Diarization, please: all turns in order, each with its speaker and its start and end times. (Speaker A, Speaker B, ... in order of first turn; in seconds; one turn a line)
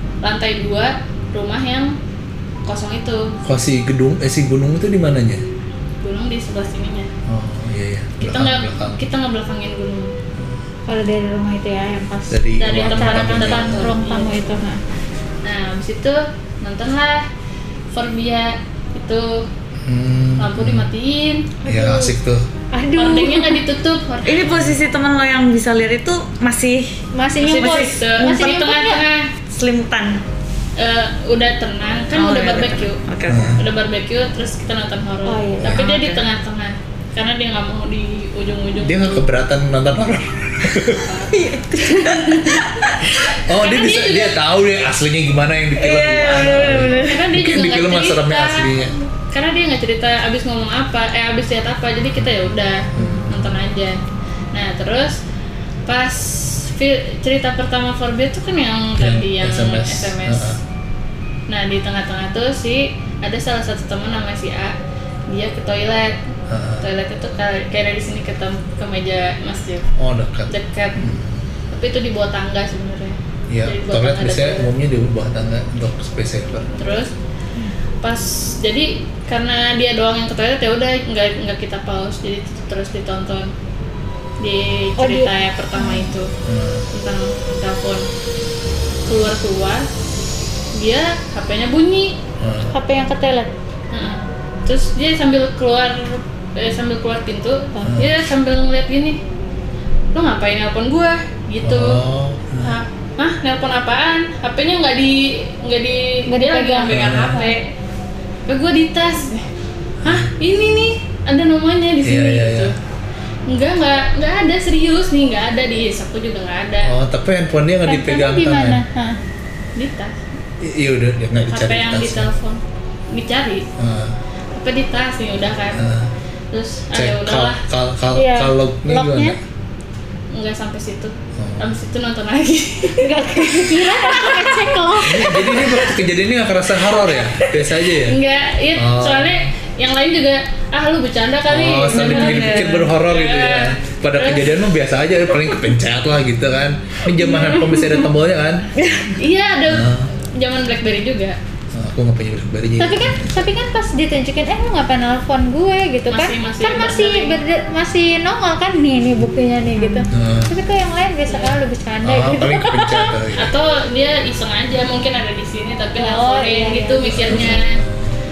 Speaker A: 0.2-1.9
Speaker A: 2.6-3.3
Speaker B: 3.4-5.4
Speaker A: 6.0-7.1
Speaker B: 7.3-9.0
Speaker A: 8.2-10.1
Speaker C: 10.9-14.8
Speaker B: 12.3-13.9
Speaker A: 12.6-14.5
Speaker A: 15.4-17.2
Speaker A: 17.9-19.4
Speaker B: 19.8-20.9
Speaker A: 20.4-21.5
Speaker C: 21.6-22.1
Speaker B: 21.6-22.4
Speaker C: 22.7-23.6
Speaker A: 23.0-24.5
Speaker D: 24.2-26.9
Speaker B: 24.4-24.8
Speaker C: 27.1-29.0
Speaker A: 27.4-29.3
Speaker D: 27.5-28.5
Speaker D: 29.5-30.2
Speaker A: 30.8-33.0
Speaker D: 32.1-33.5
Speaker B: 33.3-33.6
Speaker A: 33.6-39.2
Speaker C: 35.2-35.8
Speaker D: 35.6-36.2
Speaker B: 38.8-41.2
Speaker A: 40.9-42.6
Speaker D: 41.3-43.3
Speaker B: 43.2-48.9
Speaker A: 43.4-44.4
Speaker D: 45.8-47.2
Speaker A: 47.0-48.7
Speaker A: 49.3-54.0
Speaker B: 52.9-53.6
Speaker A: 54.5-55.2
Speaker A: 55.9-60.5
Speaker B: 59.0-60.6
Speaker A: 61.5-64.7
Speaker A: 65.3-66.2
Speaker B: 66.5-66.8
Speaker A: 66.8-69.9
Speaker B: 70.0-71.4
Speaker A: 70.5-71.0
Speaker A: 71.7-74.7
Speaker B: 73.5-76.7
Speaker A: 76.8-77.1
Speaker A: 78.0-83.5
Speaker A: 84.4-86.3
Speaker C: 85.0-86.1
Speaker B: 86.4-86.8
Speaker A: 86.9-88.0
Speaker A: 89.0-89.9
Speaker A: 90.7-92.2
Speaker B: 92.4-92.7
Speaker C: 92.6-93.5
Speaker A: 93.9-99.2
Speaker B: 97.8-98.1
Speaker A: 100.1-102.0
Speaker B: 101.6-102.8
Speaker A: 102.6-107.7
Speaker C: 106.3-107.5
Speaker B: 106.9-107.4
Speaker A: 108.5-109.5
Speaker B: 110.0-110.3
Speaker A: 110.0-112.7
Speaker B: 112.0-112.7
Speaker A: 113.5-116.9
Speaker B: 116.8-118.8
Speaker C: 117.8-119.2
Speaker A: 119.8-120.1
Speaker B: 120.6-122.3
Speaker A: 121.5-122.6
Speaker A: 123.1-123.7
Speaker B: 123.8-124.2
Speaker A: 124.5-125.8
Speaker B: 125.7-126.1
Speaker A: 126.5-127.6
Speaker B: 126.9-129.4
Speaker C: 128.1-129.3
Speaker A: 130.3-135.9
Speaker B: 131.3-131.7
Speaker C: 133.0-135.7
Speaker B: 135.0-138.2
Speaker A: 137.4-144.5
Speaker B: 138.8-139.5
Speaker B: 141.5-148.6
Speaker D: 141.9-142.9
Speaker A: 147.2-148.1
Speaker D: 148.8-149.2
Speaker A: 149.2-151.4
Speaker B: 149.7-150.1
Speaker B: 151.7-153.4
Speaker C: 152.8-163.1
Speaker A: 156.1-157.4
Speaker D: 159.8-160.1
Speaker B: 160.1-160.5
Speaker A: 161.3-161.5
Speaker B: 162.0-163.5
Speaker A: 163.3-167.8
Speaker C: 166.0-167.6
Speaker B: 167.1-168.2